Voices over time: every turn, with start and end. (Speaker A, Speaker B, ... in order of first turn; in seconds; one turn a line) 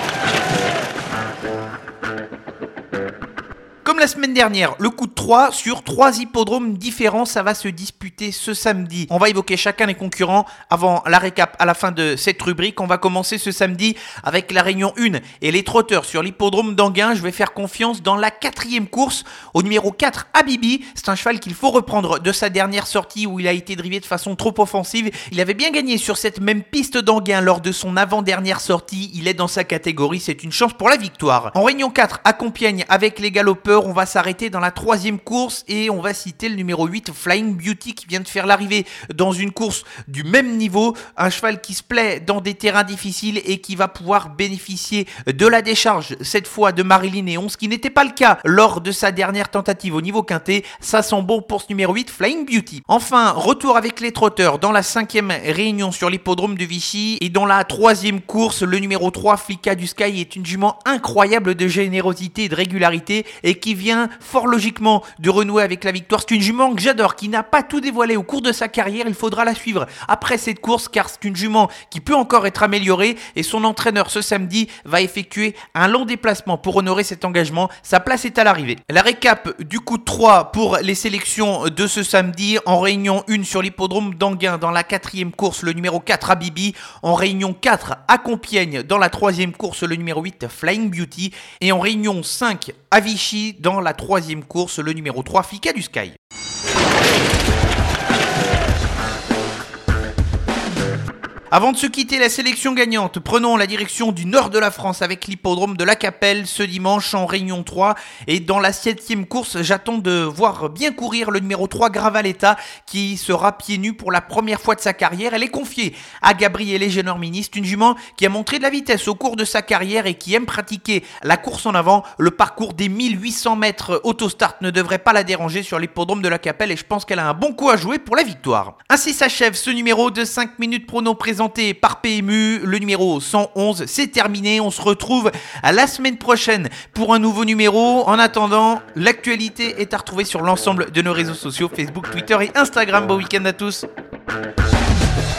Speaker A: 3.8-96.2
Speaker A: 101.5-143.8